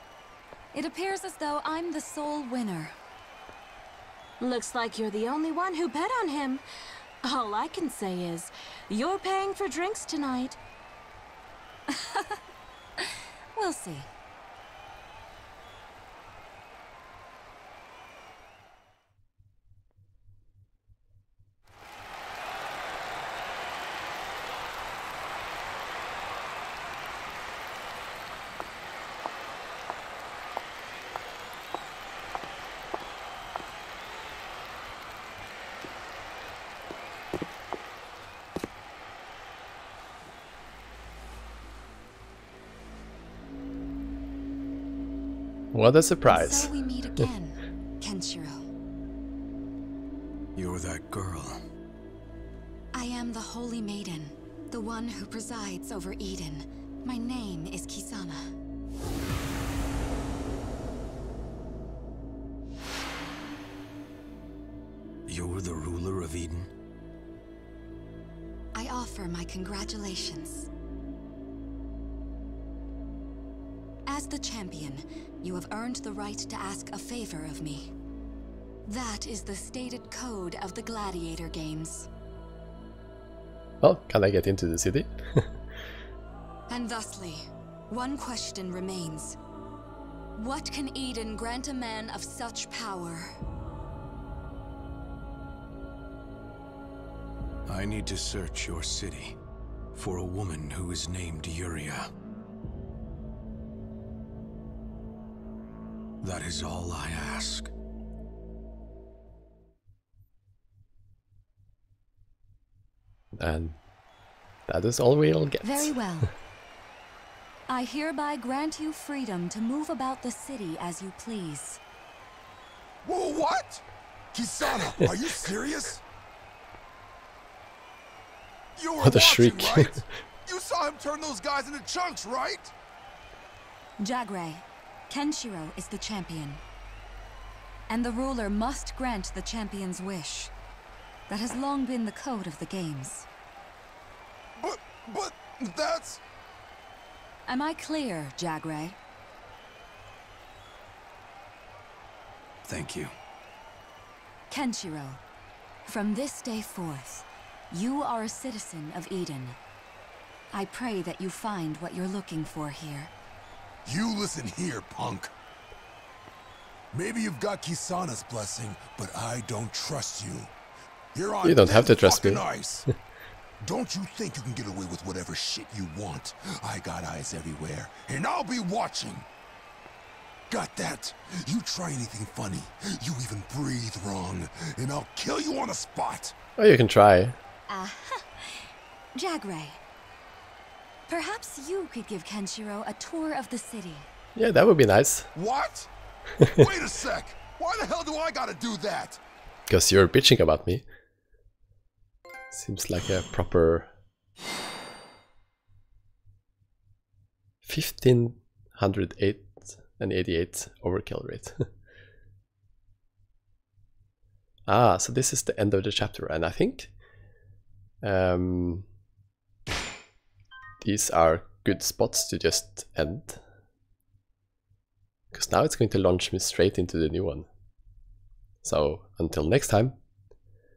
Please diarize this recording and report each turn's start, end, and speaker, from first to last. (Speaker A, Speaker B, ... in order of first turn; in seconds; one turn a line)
Speaker A: 0.7-2.9
Speaker B: 4.4-6.6
Speaker B: 7.2-10.6
Speaker A: 11.9-12.4
Speaker A: 13.0-14.1
Speaker C: 45.7-46.7
Speaker A: 46.3-48.6
Speaker D: 50.6-51.6
Speaker A: 52.9-58.5
Speaker D: 65.3-66.7
Speaker A: 68.8-70.7
Speaker A: 74.1-77.9
Speaker A: 78.8-82.1
Speaker C: 83.8-85.5
Speaker A: 86.7-89.4
Speaker A: 90.4-93.3
Speaker D: 97.7-99.4
Speaker D: 100.0-102.1
Speaker D: 106.2-107.7
Speaker C: 113.3-113.8
Speaker C: 114.7-116.0
Speaker A: 115.6-116.3
Speaker A: 117.7-121.8
Speaker E: 123.0-126.0
Speaker E: 128.8-132.7
Speaker C: 129.0-130.0
Speaker A: 134.0-136.6
Speaker A: 137.9-140.5
Speaker A: 141.3-143.3
Speaker E: 144.6-146.2
Speaker A: 147.5-149.0
Speaker D: 152.7-153.1
Speaker A: 154.5-155.2
Speaker A: 155.8-159.6
Speaker A: 160.5-163.1
Speaker E: 163.8-165.3
Speaker E: 166.9-170.5
Speaker E: 171.1-172.9
Speaker C: 171.4-172.4
Speaker E: 173.6-179.3
Speaker E: 180.5-186.3
Speaker C: 186.6-187.4
Speaker A: 187.7-189.8
Speaker A: 191.1-194.1
Speaker C: 194.4-195.3
Speaker E: 195.3-195.9
Speaker C: 196.4-196.7
Speaker E: 196.4-199.2
Speaker C: 199.7-200.8
Speaker C: 202.5-203.9
Speaker C: 207.7-211.7
Speaker C: 214.7-216.9
Speaker C: 218.0-218.9
Speaker C: 220.8-223.4
Speaker C: 225.3-227.5
Speaker C: 228.6-230.0